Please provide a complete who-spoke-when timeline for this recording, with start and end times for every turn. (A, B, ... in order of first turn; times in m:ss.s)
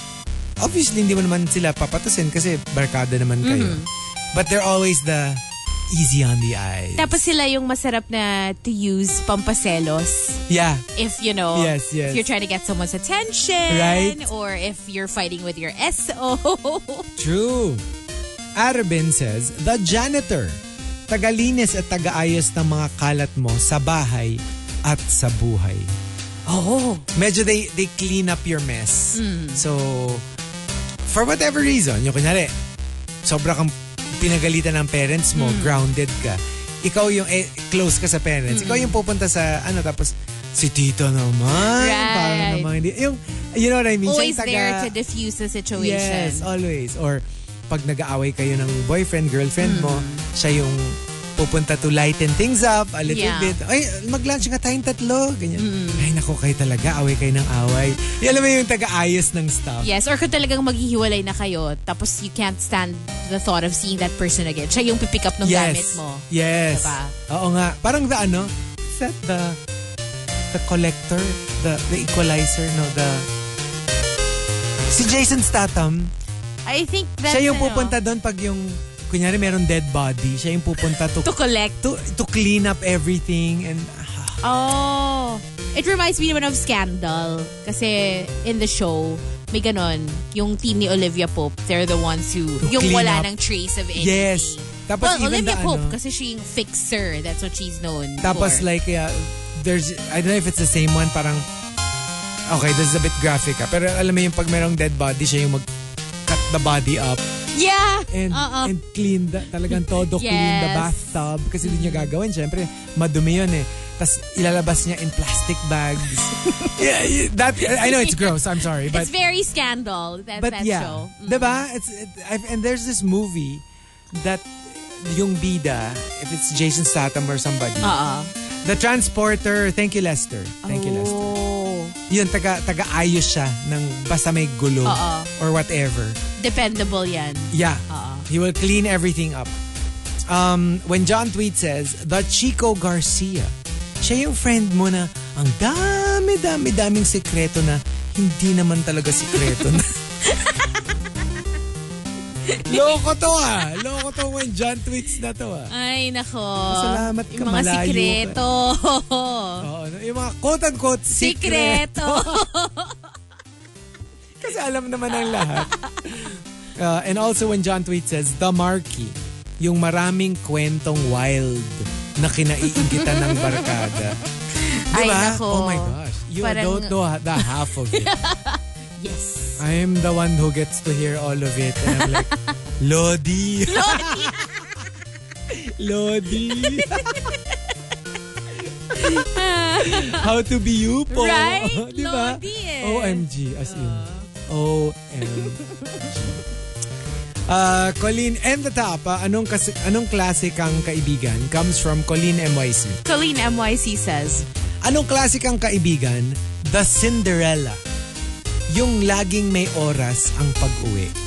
0:00.6-0:03.8 A
0:03.4-0:03.9 B
0:04.3-0:07.2 A
0:07.0-0:10.4 B
0:10.5-0:10.8 A
0:10.9-0:17.1 B
0:11.5-0:12.3 A
0:13.7-0:14.2 A
0:17.2-0:17.8 A
0:18.6-0:25.9 A
0:26.5-0:27.1 B
0:27.1-0:30.2 A
0:29.1-0:29.6 B
0:31.0-0:32.5 A
0:33.2-0:44.9 A
0:35.3-0:35.8 B
0:38.5-0:39.0 B
0:41.6-0:42.7 B
0:44.0-0:46.5 B
0:45.7-0:59.9 A
0:49.6-0:50.2 B
0:53.0-0:53.6 B
0:55.6-0:56.1 B
0:59.8-1:07.1 B
1:05.4-1:09.6 A
1:10.5-1:13.3 A
1:14.9-1:16.1 A
1:16.6-1:18.0 B
1:17.3-1:24.4 A
1:21.2-1:21.8 B
1:24.4-1:38.7 B
1:32.6-1:33.3 A
1:33.9-1:36.0 A
1:38.2-1:41.4 A
1:42.5-1:45.6 A
1:46.2-1:47.2 A
1:47.5-1:48.7 B
1:48.1-1:59.1 A
1:49.7-1:51.1 B
1:51.6-1:52.1 B
1:56.0-1:56.9 B
1:57.6-2:01.6 B
2:00.4-2:08.0 A
2:07.8-2:08.3 B
2:08.6-2:11.2 A
2:10.6-2:12.0 B
2:12.1-2:16.2 A
2:14.8-2:15.3 B
2:16.4-2:18.2 B
2:17.5-2:19.5 A
2:20.3-2:30.0 A
2:29.3-2:29.6 B
2:30.2-2:31.2 B
2:32.4-2:34.0 B
2:32.6-2:35.7 A
2:35.7-2:39.7 B
2:36.7-2:38.4 A
2:39.6-2:42.4 A
2:41.1-2:43.1 B
2:44.4-2:54.2 A
2:45.1-2:46.0 B
2:52.7-2:53.9 B
2:54.5-2:59.6 B
2:54.9-2:58.1 A
2:59.6-3:04.6 A
3:01.8-3:02.5 B
3:03.7-3:04.8 B
3:05.5-3:07.3 A
3:06.3-3:07.7 B
3:08.9-3:10.3 B
3:09.8-3:16.4 A
3:11.1-3:14.3 B
3:15.2-3:16.0 B
3:17.5-3:23.0 A
3:23.0-3:24.4 B
3:24.8-3:27.8 A
3:28.7-3:31.1 A